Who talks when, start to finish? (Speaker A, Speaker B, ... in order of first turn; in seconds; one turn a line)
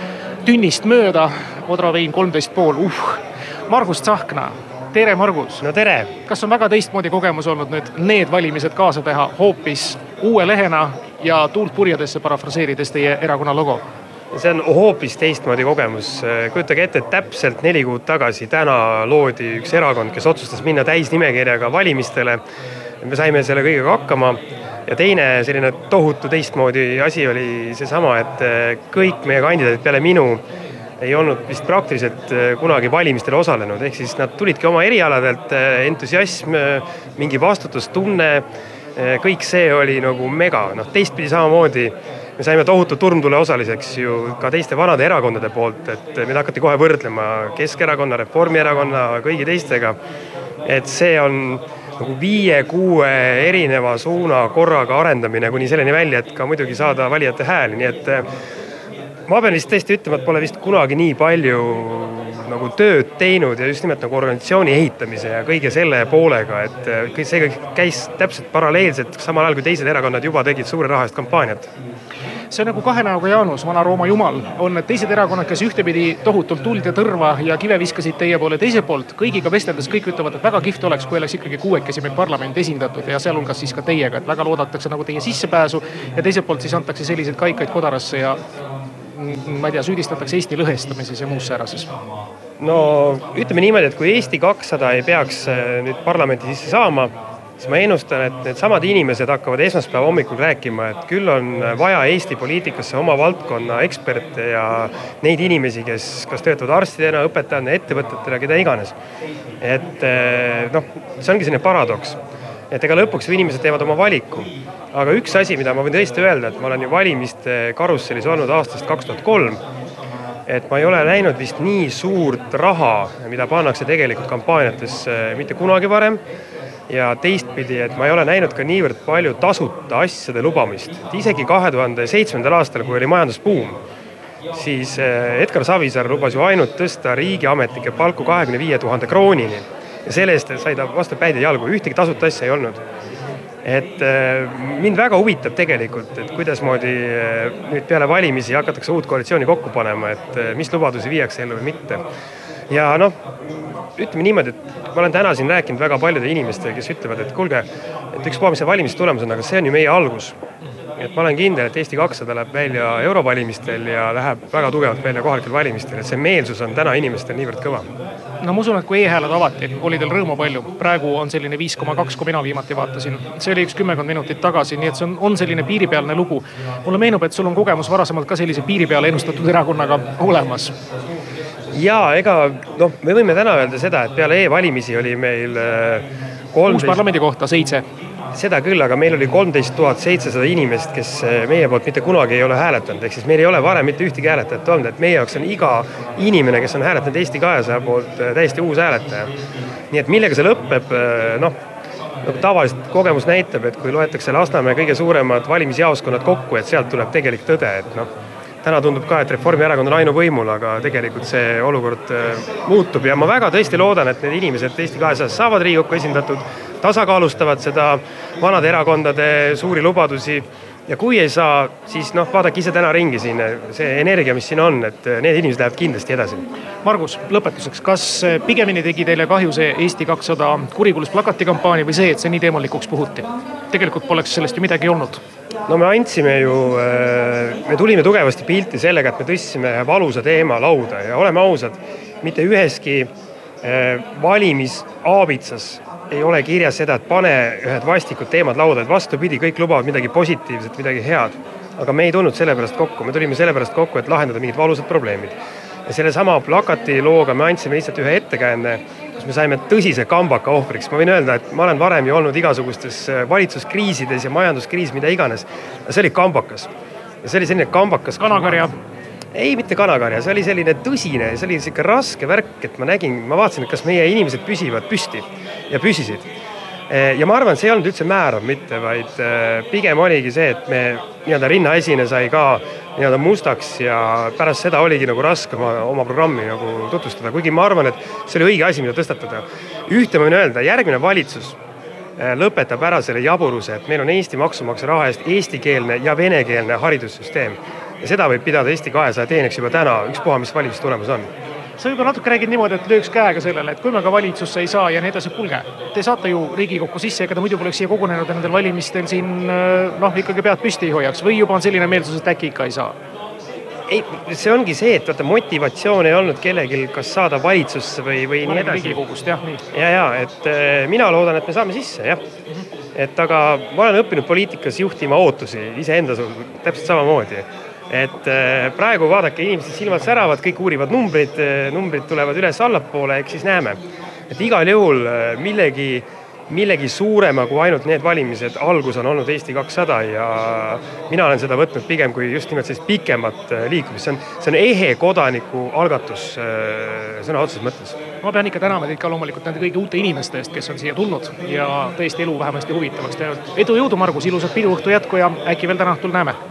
Speaker A: 0.4-5.6
Speaker B: 5.6-6.1
Speaker A: 6.3-13.8
Speaker B: 14.3-22.4
Speaker B: 23.0-30.4
Speaker B: 31.0-38.4
Speaker B: 39.0-50.0
Speaker B: 50.6-58.2
Speaker B: 59.3-71.7
Speaker A: 72.5-88.4
Speaker A: 89.1-91.9
Speaker B: 92.6-108.9
Speaker B: 109.6-112.2
Speaker B: 112.7-119.6
Speaker B: 120.5-126.2
Speaker B: 126.9-133.8
Speaker B: 134.5-142.8
Speaker B: 143.6-152.0
Speaker B: 152.7-153.1
Speaker B: 154.0-160.3
Speaker B: 161.0-167.9
Speaker A: 168.4-180.7
Speaker B: 181.7-187.0
Speaker A: 186.7-187.8
Speaker B: 188.3-199.3
Speaker B: 199.9-201.5
Speaker B: 202.2-208.1
Speaker B: 208.6-226.4
Speaker A: 226.8-235.2
Speaker B: 235.7-243.1
Speaker B: 243.6-255.3
Speaker B: 255.9-266.7
Speaker B: 267.2-268.6
Speaker A: 268.2-268.7
Speaker B: 269.3-276.3
Speaker B: 276.9-291.6
Speaker B: 292.2-301.3
Speaker A: 301.8-312.9
Speaker B: 313.9-319.0
Speaker A: 318.4-319.6
Speaker B: 319.7-322.2
Speaker B: 322.9-333.8
Speaker B: 334.3-348.0
Speaker A: 348.2-356.4